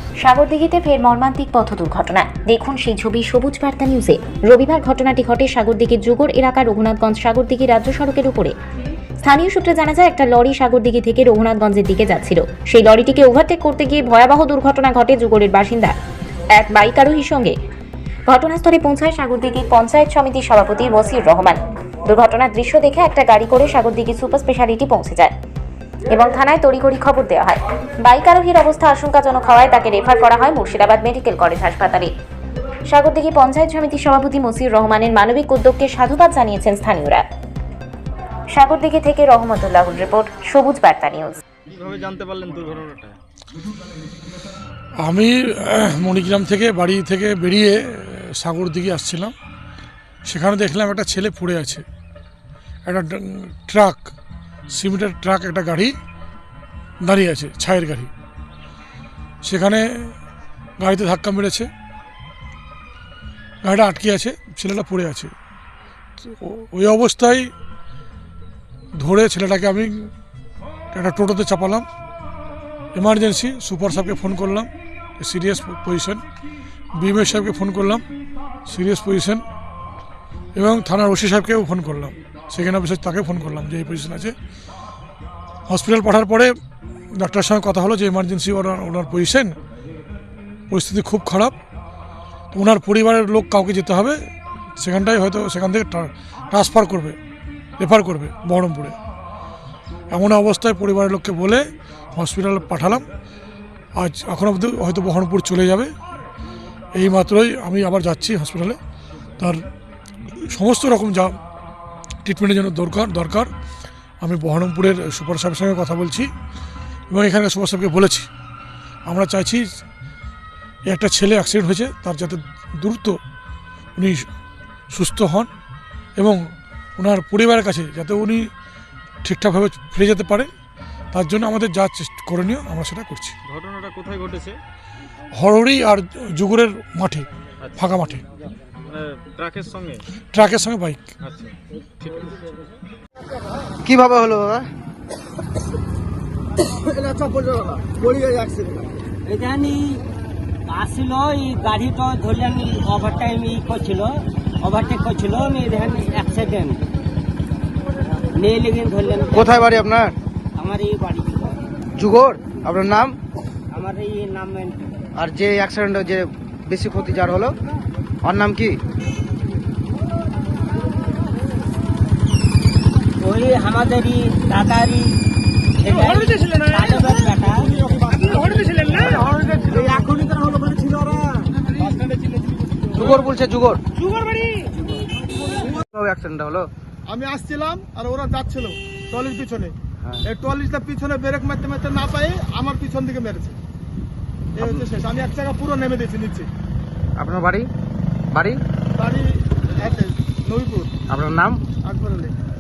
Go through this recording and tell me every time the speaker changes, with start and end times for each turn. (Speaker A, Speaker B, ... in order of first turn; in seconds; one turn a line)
Speaker A: 0.2-8.5
Speaker A: 9.2-15.9
Speaker A: 16.5-17.6
Speaker A: 18.3-25.3
Speaker A: 26.1-32.1
Speaker A: 32.9-37.2
Speaker A: 38.5-41.4
Speaker B: 41.7-43.2
Speaker C: 45.0-49.3
Speaker C: 50.2-51.8
Speaker C: 52.9-54.1
Speaker C: 54.7-55.9
Speaker C: 57.0-58.1
Speaker C: 59.4-60.1
Speaker C: 60.8-61.7
Speaker C: 63.6-65.3
Speaker C: 66.2-67.5
Speaker C: 69.0-70.1
Speaker C: 70.9-71.9
Speaker C: 72.9-74.7
Speaker C: 75.2-76.2
Speaker C: 77.0-78.0
Speaker C: 78.7-79.4
Speaker C: 80.5-84.3
Speaker C: 85.7-86.5
Speaker C: 87.2-89.5
Speaker C: 90.7-91.5
Speaker C: 92.5-94.2
Speaker C: 94.8-97.2
Speaker C: 97.8-98.9
Speaker C: 100.1-101.6
Speaker C: 102.1-103.0
Speaker C: 104.0-105.9
Speaker C: 106.9-108.8
Speaker C: 110.5-111.3
Speaker C: 112.2-113.5
Speaker C: 114.2-116.3
Speaker C: 117.1-118.3
Speaker C: 119.1-119.7
Speaker C: 120.8-123.2
Speaker C: 124.0-124.3
Speaker C: 124.9-125.5
Speaker C: 127.0-128.5
Speaker C: 129.2-130.5
Speaker C: 131.1-133.3
Speaker B: 133.5-134.6
Speaker C: 135.3-138.2
Speaker B: 137.6-137.9
Speaker B: 138.9-140.0
Speaker C: 140.3-141.0
Speaker B: 141.2-142.4
Speaker D: 143.8-144.7
Speaker E: 149.2-150.0
Speaker E: 150.7-154.1
Speaker E: 154.6-156.8
Speaker E: 158.3-159.9
Speaker D: 159.3-160.1
Speaker E: 160.6-161.6
Speaker D: 162.0-163.2
Speaker E: 163.7-165.0
Speaker D: 165.2-167.6
Speaker D: 168.2-168.8
Speaker E: 173.2-175.1
Speaker E: 175.8-178.9
Speaker D: 178.9-180.0
Speaker E: 179.9-181.2
Speaker F: 181.8-182.4
Speaker D: 182.9-183.8
Speaker E: 184.1-184.6
Speaker D: 185.7-186.7
Speaker F: 187.1-189.8
Speaker F: 190.2-193.6
Speaker F: 194.6-196.5
Speaker D: 194.6-194.9
Speaker D: 197.2-197.7
Speaker D: 198.3-198.6
Speaker F: 199.0-200.9
Speaker D: 201.1-201.6
Speaker F: 201.8-202.3